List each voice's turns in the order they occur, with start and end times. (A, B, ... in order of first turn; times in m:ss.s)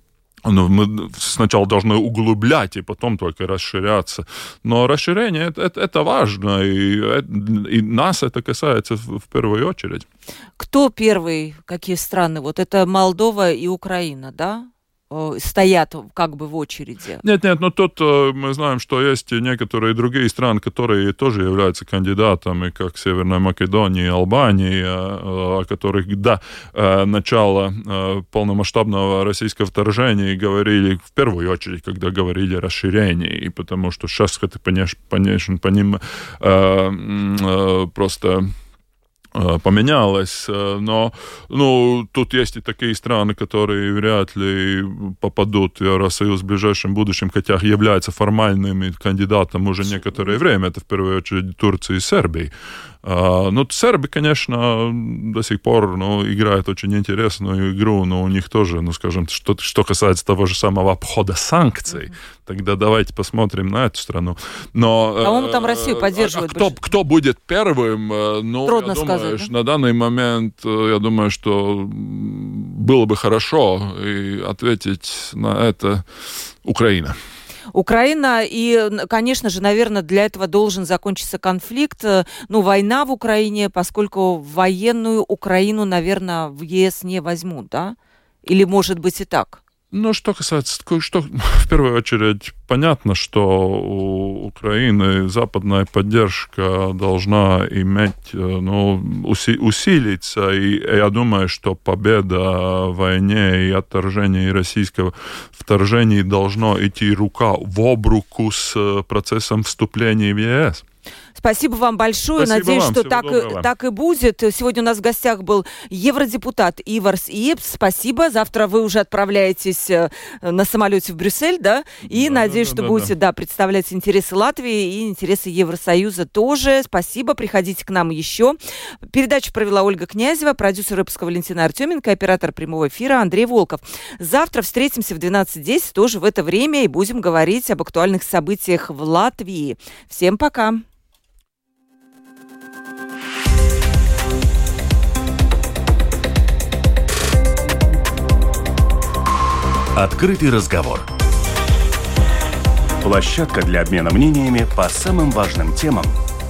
0:00.4-0:10.0 A
0:10.6-0:17.2 B
0:17.2-0:38.5 A
0:39.3-0:52.5 A
0:53.0-1:16.1 A
1:05.2-1:06.8 B
1:08.6-1:09.5 B
1:16.6-1:17.2 A
1:17.7-1:29.6 B
1:29.9-1:50.8 A
1:51.4-2:20.8 B
1:52.4-1:53.7 A
2:02.1-2:03.1 A
2:30.0-2:31.1 C
2:33.0-2:36.2 C